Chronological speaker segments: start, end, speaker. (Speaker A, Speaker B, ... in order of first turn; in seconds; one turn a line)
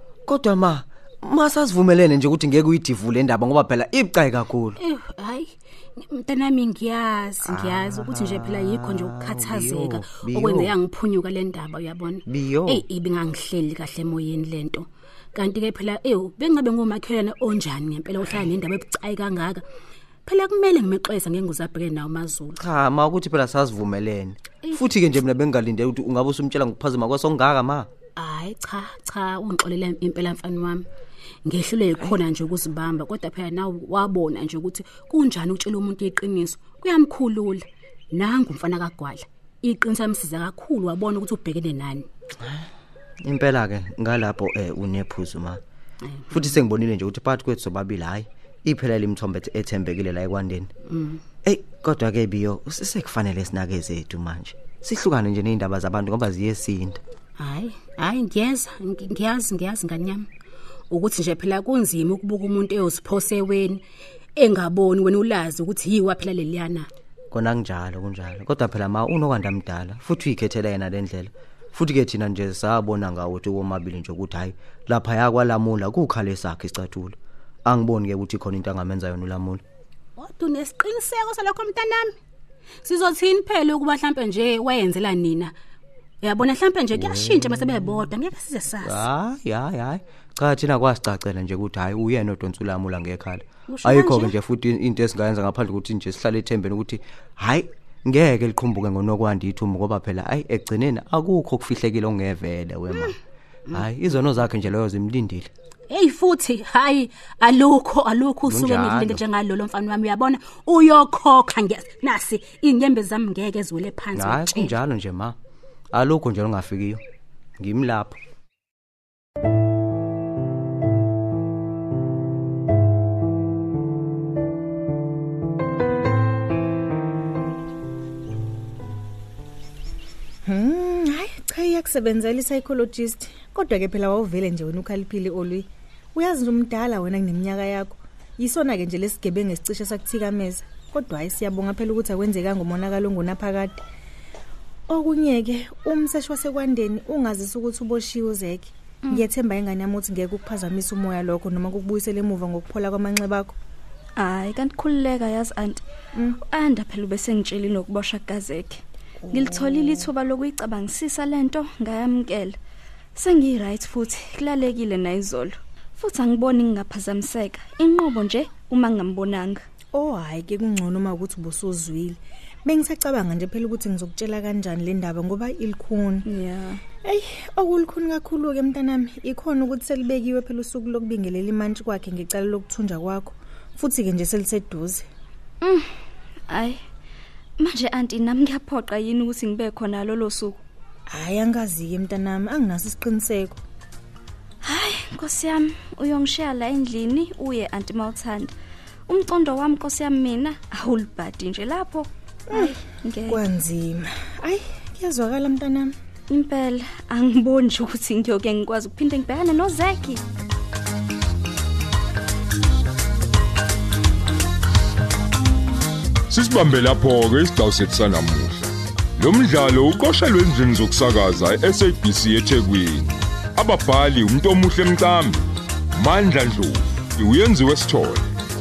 Speaker A: 0.3-4.8
Speaker B: 4.8-19.6
Speaker A: 7.4-10.8
Speaker A: 12.3-12.9
Speaker B: 20.3-22.6
Speaker A: 22.6-27.9
Speaker B: 28.2-30.9
Speaker B: 31.4-42.1
Speaker A: 42.4-42.7
Speaker A: 43.2-45.6
Speaker B: 46.1-46.6
Speaker A: 46.3-50.7
Speaker B: 50.9-51.2
Speaker A: 51.5-57.0
Speaker B: 57.4-60.3
Speaker B: 60.9-63.8
Speaker B: 64.4-66.9
Speaker A: 67.3-79.6
Speaker B: 80.2-82.2
Speaker B: 82.8-85.5
Speaker B: 86.2-89.1
Speaker A: 86.9-88.0
Speaker A: 88.8-103.2
Speaker B: 93.7-94.4
Speaker A: 103.7-105.5
Speaker B: 105.9-114.8
Speaker A: 108.4-109.2
Speaker A: 114.1-115.4
Speaker A: 115.9-117.0
Speaker A: 117.6-118.2
Speaker C: 130.5-143.8
Speaker C: 144.9-153.6
Speaker D: 154.2-155.8
Speaker D: 156.4-158.8
Speaker C: 159.3-160.1
Speaker D: 159.3-162.6
Speaker D: 163.2-169.6
Speaker C: 169.9-176.3
Speaker D: 176.3-176.8
Speaker C: 177.0-185.1
Speaker D: 185.6-185.9
Speaker D: 186.5-186.8
Speaker D: 187.6-190.6
Speaker C: 191.1-193.6
Speaker D: 194.6-198.5
Speaker D: 199.1-203.4
Speaker C: 202.5-205.9
Speaker D: 206.3-210.2
Speaker E: 216.3-228.4